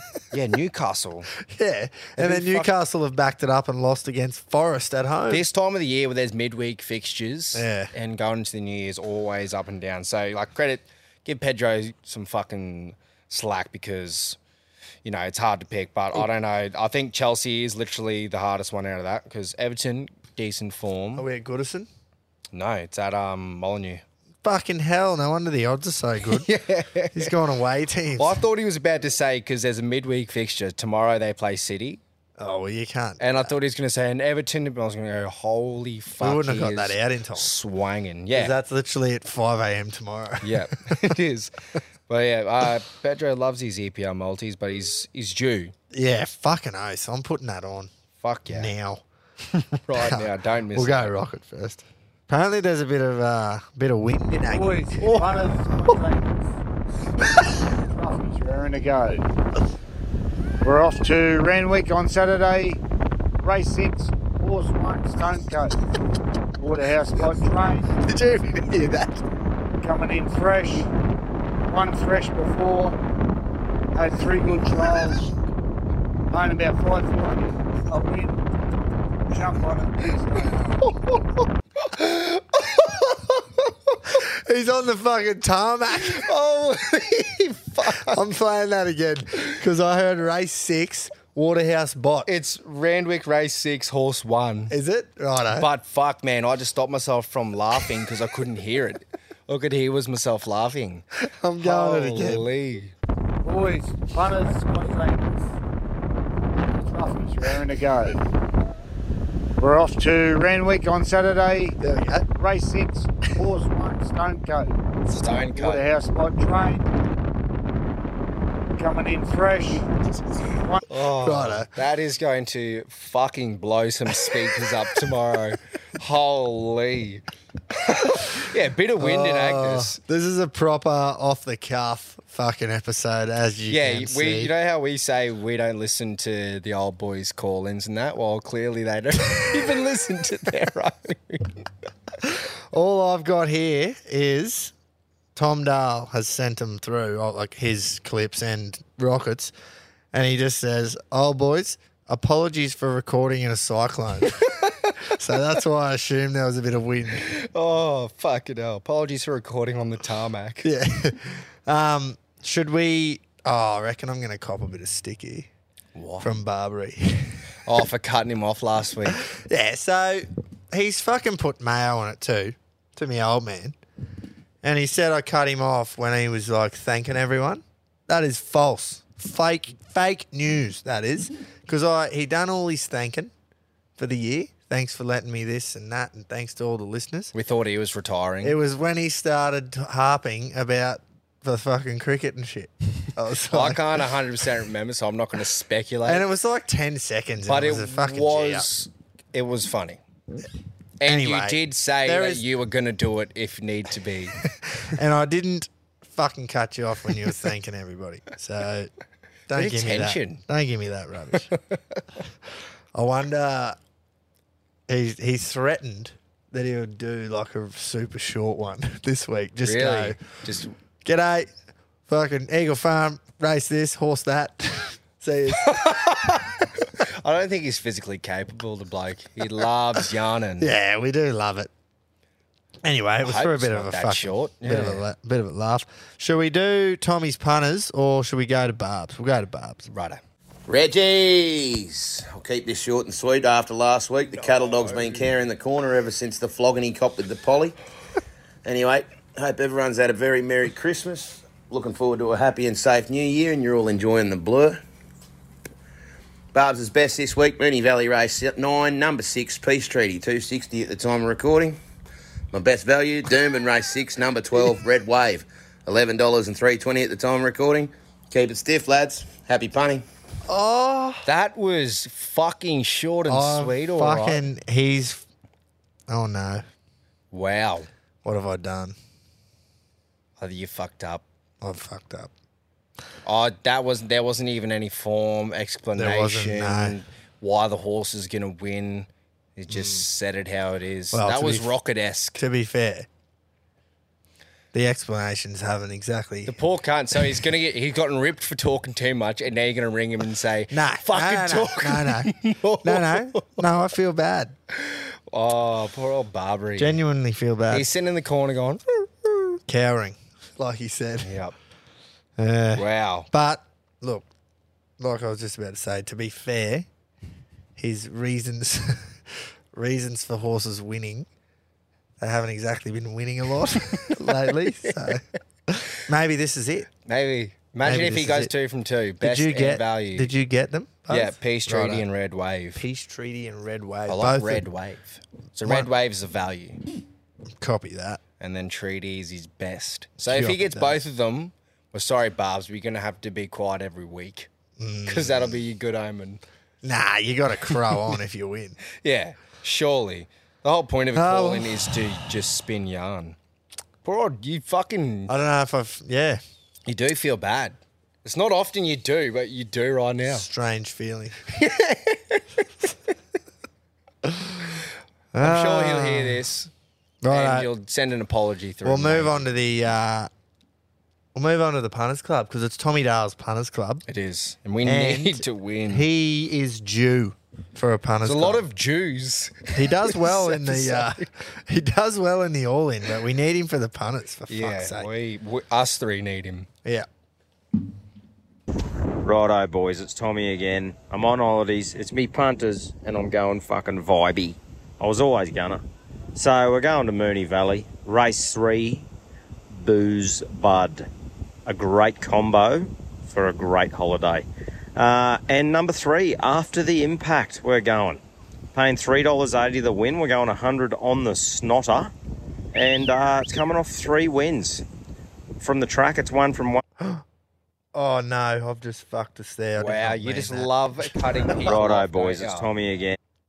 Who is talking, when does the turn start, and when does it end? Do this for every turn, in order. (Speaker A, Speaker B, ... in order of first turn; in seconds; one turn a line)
Speaker A: 0.3-1.3
Speaker B: 1.5-5.4
Speaker A: 2.1-2.7
Speaker A: 5.3-14.4
Speaker B: 7.5-7.9
Speaker A: 15.0-21.3
Speaker B: 21.2-21.9
Speaker A: 22.5-24.0
Speaker B: 24.4-26.5
Speaker A: 26.2-27.4
Speaker B: 27.1-28.4
Speaker A: 28.1-32.0
Speaker B: 32.4-33.5
Speaker A: 33.2-38.5
Speaker B: 36.2-37.5
Speaker B: 38.3-41.1
Speaker A: 40.4-41.5
Speaker A: 42.1-45.7
Speaker B: 45.9-47.9
Speaker A: 48.2-48.7
Speaker B: 48.5-49.0
Speaker A: 49.9-51.1
Speaker B: 49.9-54.8
Speaker C: 54.4-56.4
Speaker A: 55.0-55.4
Speaker C: 57.4-59.3
Speaker C: 60.6-62.8
Speaker C: 63.4-65.8
Speaker C: 66.6-67.9
Speaker B: 68.0-69.2
Speaker C: 69.8-70.9
Speaker C: 71.7-73.0
Speaker C: 73.9-75.3
Speaker C: 76.3-78.4
Speaker C: 79.3-80.8
Speaker A: 81.9-82.6
Speaker B: 84.2-86.2
Speaker A: 85.9-88.2
Speaker B: 87.9-92.3
Speaker A: 92.2-94.7
Speaker B: 94.7-95.7
Speaker A: 95.5-101.0
Speaker B: 101.3-102.5
Speaker A: 101.6-102.9
Speaker C: 103.4-105.5
Speaker C: 106.7-108.2
Speaker C: 109.6-111.8
Speaker B: 111.8-112.2
Speaker C: 112.3-114.8
Speaker A: 115.1-115.8
Speaker C: 115.5-116.8
Speaker C: 118.7-120.8
Speaker A: 120.9-130.0
Speaker B: 121.2-121.7
Speaker B: 129.0-134.5
Speaker A: 133.7-141.7
Speaker B: 142.2-144.7
Speaker B: 145.3-149.5
Speaker B: 150.1-154.4
Speaker A: 154.2-154.9
Speaker B: 155.1-157.3
Speaker A: 157.1-160.7
Speaker B: 160.6-165.5
Speaker A: 165.9-166.3
Speaker B: 166.2-167.4
Speaker A: 167.6-169.2
Speaker B: 169.3-173.8
Speaker B: 174.6-183.3
Speaker B: 184.0-187.3
Speaker A: 187.3-188.6
Speaker B: 188.4-194.0
Speaker A: 193.5-196.2
Speaker B: 196.0-198.7
Speaker A: 197.4-200.0
Speaker A: 201.0-204.3
Speaker B: 201.1-202.4
Speaker B: 204.8-208.9
Speaker B: 209.5-211.5
Speaker A: 209.5-210.4
Speaker A: 211.3-212.0
Speaker B: 212.9-213.8
Speaker B: 214.9-220.2
Speaker A: 219.6-220.7
Speaker B: 221.0-221.5
Speaker B: 222.1-226.4
Speaker A: 225.5-230.7
Speaker B: 230.6-231.7
Speaker B: 232.8-239.9
Speaker A: 233.2-235.0
Speaker A: 239.9-240.2
Speaker D: 240.7-247.8
Speaker A: 244.6-245.2
Speaker D: 248.6-254.8
Speaker D: 256.5-261.8
Speaker D: 262.5-270.0
Speaker B: 270.5-271.2
Speaker A: 271.2-274.4
Speaker B: 273.3-275.2
Speaker B: 276.1-276.6
Speaker A: 277.3-277.9
Speaker B: 278.2-278.9
Speaker A: 280.4-281.2
Speaker B: 281.6-282.3
Speaker A: 283.2-292.4
Speaker B: 285.9-287.0
Speaker B: 289.7-290.0
Speaker B: 291.1-291.7
Speaker B: 292.4-293.1
Speaker B: 294.7-296.6
Speaker A: 296.4-303.6
Speaker B: 300.7-304.5
Speaker A: 304.7-307.0
Speaker B: 306.8-307.9
Speaker A: 307.7-309.4
Speaker B: 309.7-311.3
Speaker A: 311.2-311.5
Speaker B: 312.4-314.3
Speaker A: 312.7-313.3
Speaker B: 315.0-316.9
Speaker B: 317.8-319.2
Speaker B: 319.7-321.3
Speaker B: 322.2-326.9
Speaker A: 324.1-325.2
Speaker A: 327.0-330.3
Speaker B: 327.8-328.5
Speaker B: 329.2-332.0
Speaker A: 331.1-332.8
Speaker B: 332.8-334.6
Speaker A: 334.1-336.8
Speaker B: 337.6-338.2
Speaker A: 338.4-344.5
Speaker B: 340.2-341.0
Speaker B: 344.8-345.6
Speaker A: 345.1-346.4
Speaker B: 346.8-348.8
Speaker A: 347.6-348.2
Speaker A: 348.9-353.4
Speaker B: 351.1-351.9
Speaker A: 354.0-355.4
Speaker B: 355.3-356.4
Speaker A: 356.9-360.5
Speaker B: 360.3-361.4
Speaker A: 361.5-362.9
Speaker B: 364.3-364.8
Speaker B: 365.3-366.4
Speaker A: 365.4-366.7
Speaker B: 367.2-367.7
Speaker A: 367.3-369.5
Speaker B: 368.8-370.3
Speaker B: 371.3-374.0
Speaker A: 374.1-376.1
Speaker B: 374.8-378.6
Speaker A: 378.2-381.3
Speaker B: 379.7-385.1
Speaker A: 384.5-386.7
Speaker E: 389.2-395.8
Speaker E: 396.3-399.1
Speaker E: 399.7-401.1
Speaker E: 401.6-408.2
Speaker E: 408.7-412.1
Speaker E: 412.7-414.8
Speaker E: 415.6-416.8
Speaker B: 417.9-421.6
Speaker A: 419.8-422.7
Speaker E: 421.6-423.1